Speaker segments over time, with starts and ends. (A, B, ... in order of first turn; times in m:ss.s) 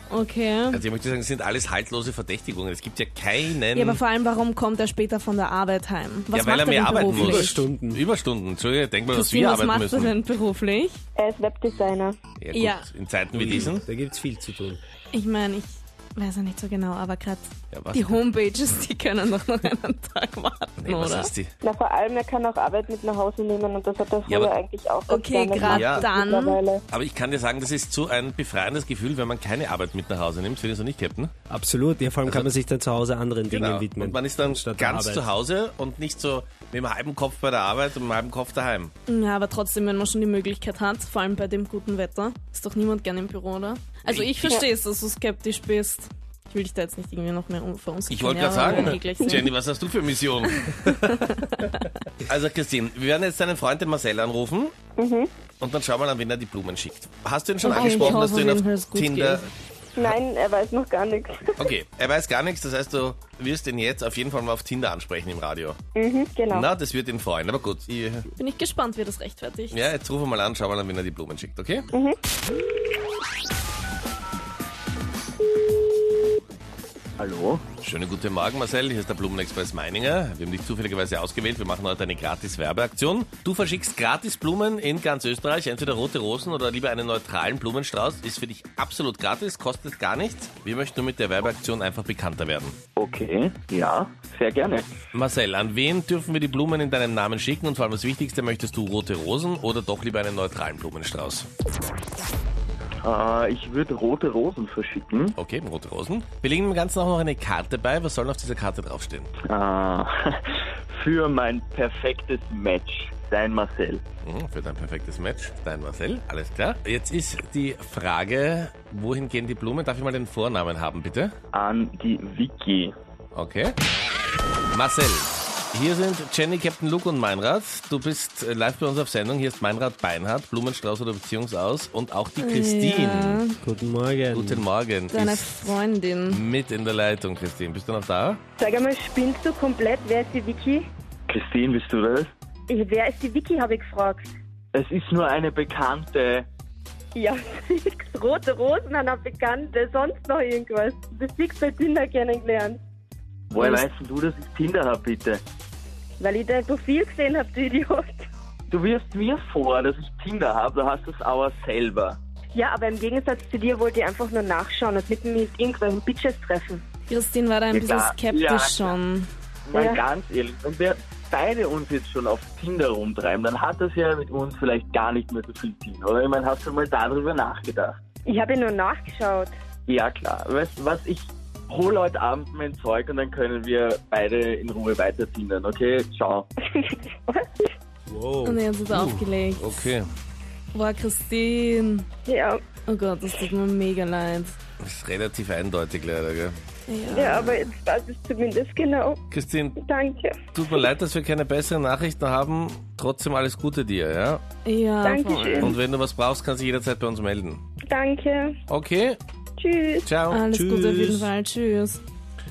0:00.1-0:00.8 A
0:00.7-0:04.0 B
0:03.8-0:07.6 A
0:06.3-0:10.2 B
0:07.1-0:08.0 C
0:09.1-0:11.0 A
0:11.2-0:12.2 D
0:12.4-0:13.8 B
0:12.5-0:12.8 A
0:13.3-0:14.8 C
0:15.1-0:21.3 A
0:17.7-0:18.2 B
0:20.8-0:21.5 B
0:21.6-0:26.8 D
0:24.3-0:24.5 B
0:25.1-0:26.6 A
0:25.7-0:26.0 B
0:26.9-0:31.3 B
0:31.5-0:35.3 C
0:33.5-0:38.9 B
0:39.1-0:49.5 A
0:44.1-0:44.5 B
0:48.1-0:51.1 B
0:50.6-0:51.8 A
0:52.3-0:54.7 B
0:55.0-0:55.3 D
0:55.6-0:59.4 B
0:57.6-0:59.5 A
0:57.7-0:58.2 D
1:00.0-1:01.7 D
1:01.6-1:05.8 B
1:06.0-1:06.7 D
1:06.5-1:08.3 B
1:08.4-1:09.9 A
1:09.7-1:11.9 B
1:17.2-1:17.6 E
1:17.8-1:32.8 B
1:33.0-1:34.9 E
1:35.2-1:41.5 B
1:43.0-1:45.4 E
1:45.4-1:49.3 B
1:49.4-1:54.0 E
1:54.2-2:01.3 B
2:01.5-2:03.0 E
2:03.3-2:03.8 B
2:04.7-2:13.4 B
2:12.4-2:13.6 A
2:13.6-2:14.6 C
2:14.3-2:15.8 B
2:15.1-2:16.4 A
2:16.3-2:18.4 B
2:18.6-2:20.9 D
2:21.3-2:22.3 E
2:22.7-2:24.3 D
2:24.7-2:26.5 E
2:27.2-2:32.8 D
2:33.5-2:35.4 E
2:33.6-2:33.9 D
2:36.2-2:38.3 D
2:38.7-2:42.2 E
2:42.6-2:46.8 D
2:47.1-2:49.3 A
2:47.7-2:49.0 E
2:49.7-2:58.0 E
2:49.7-2:50.0 D
2:58.2-2:59.5 D
2:59.9-3:06.5 E
3:06.7-3:07.6 D
3:08.1-3:08.6 C
3:08.4-3:09.8 A
3:08.9-3:10.1 B
3:10.7-3:12.1 A
3:12.3-3:12.6 D
3:12.9-3:14.6 A
3:14.8-3:16.6 B
3:16.9-3:17.6 A
3:17.1-3:19.2 D
3:19.3-3:19.8 B
3:19.8-3:20.9 D
3:20.6-3:24.4 B
3:24.6-3:25.8 A
3:25.0-3:25.8 D
3:25.6-3:27.6 B
3:27.8-3:28.6 D
3:28.7-3:29.2 B
3:29.6-3:30.1 D
3:30.0-3:30.4 B
3:30.3-3:32.0 A
3:30.5-3:31.3 C